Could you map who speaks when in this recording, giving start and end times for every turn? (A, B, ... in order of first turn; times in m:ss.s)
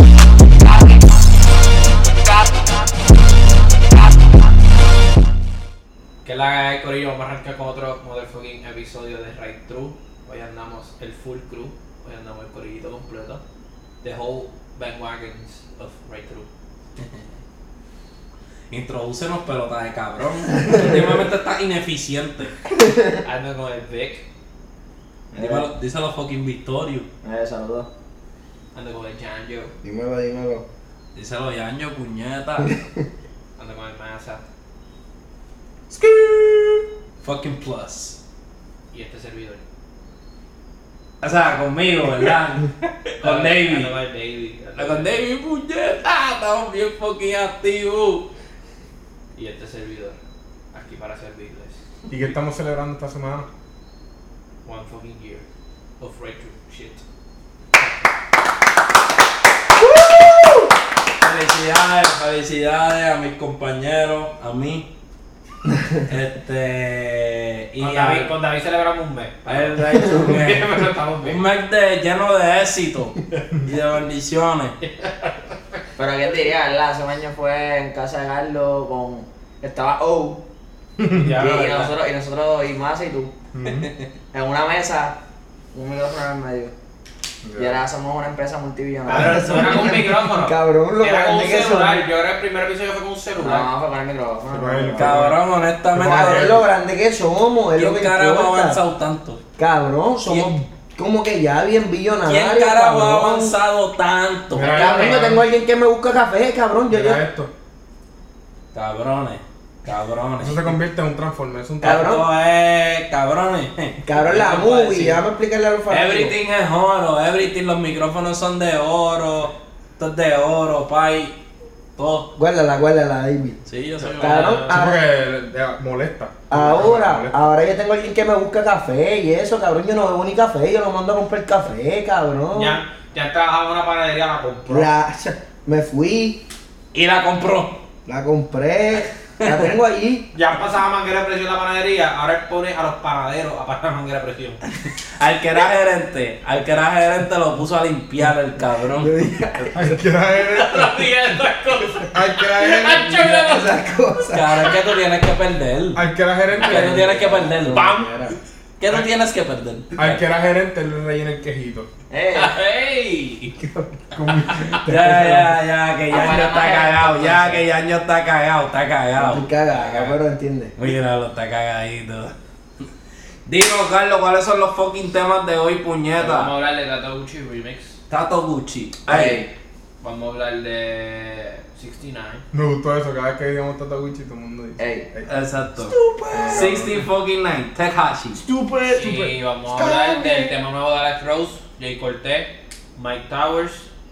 0:06.2-0:13.4 A
0:14.0-0:16.5 A
0:18.7-0:22.5 B
0:22.8-0:23.1 C
0:23.2-0:24.2 A
0:25.3-0:27.1 B
0:27.2-0:27.9 D
0:28.7-0:29.7 A
0:29.8-0:30.6 C
0:31.1-0:32.8 B
0:33.6-0:34.4 A
0:37.2-0:38.2 B
0:38.9-0:39.6 A
0:41.2-0:44.0 B
0:43.2-0:45.2 A
0:44.8-0:48.3 B
0:49.3-0:50.2 A
0:50.7-0:52.2 A
0:52.1-0:53.5 E
0:54.6-0:55.4 A
0:56.0-0:57.0 A
1:01.2-1:04.9 B
1:06.0-1:08.3 B
1:07.8-1:11.4 A
1:09.4-1:14.7 B
1:14.8-1:15.3 A
1:16.0-1:20.4 D
1:21.0-1:21.5 E
1:21.1-1:21.9 A
1:21.2-1:23.3 D
1:23.5-1:23.9 E
1:24.3-1:25.2 D
1:25.7-1:26.7 D
1:27.4-1:27.8 E
1:27.6-1:29.6 D
1:29.1-1:32.0 C
1:29.1-1:33.7 A
1:33.4-1:35.2 D
1:34.5-1:35.4 E
1:35.0-1:36.6 B
1:35.9-1:36.6 E
1:36.0-1:38.8 C
1:37.7-1:39.4 B
1:39.6-1:43.5 C
1:40.2-1:40.5 B
1:42.2-1:44.8 B
1:44.5-1:45.4 E
1:44.6-1:47.2 C
1:44.8-1:45.2 A
1:46.9-1:47.5 E
1:48.7-1:50.7 B
1:50.4-1:52.1 E
1:51.8-1:52.2 C
1:51.8-1:55.2 B
1:54.0-1:56.3 C
1:55.9-2:01.3 B
2:02.0-2:02.3 B
2:02.4-2:03.6 C
2:03.6-2:04.6 B
2:04.2-2:04.7 A
2:04.2-2:05.0 C
2:04.7-2:07.4 E
2:06.5-2:12.8 C
2:12.5-2:14.9 A
2:14.7-2:16.4 C
2:16.9-2:17.8 B
2:18.0-2:20.3 C
2:20.3-2:24.6 A
2:25.0-2:29.1 B
2:28.9-2:30.0 C
2:29.7-2:31.0 E
2:30.4-2:33.8 A
2:32.1-2:33.3 E
2:32.8-2:34.7 C
2:34.3-2:36.0 B
2:35.9-2:37.1 E
2:36.6-2:38.1 B
2:36.7-2:38.4 C
2:38.8-2:40.2 B
2:40.0-2:41.9 E
2:42.1-2:42.6 D
2:42.3-2:43.6 A
2:44.1-2:45.5 E
2:44.8-2:50.2 B
2:46.1-2:47.6 D
2:49.1-2:50.7 C
2:50.8-2:52.3 B
2:53.4-2:56.5 B
2:56.2-2:58.0 A
2:58.1-2:59.4 B
2:59.1-2:59.5 D
3:00.0-3:02.4 A
3:02.5-3:05.4 E
3:04.8-3:05.1 D
3:05.3-3:05.9 B
3:06.2-3:06.6 C
3:06.3-3:07.1 E
3:06.5-3:08.4 B
3:08.4-3:09.3 E
3:08.9-3:13.9 A
3:09.8-3:10.2 C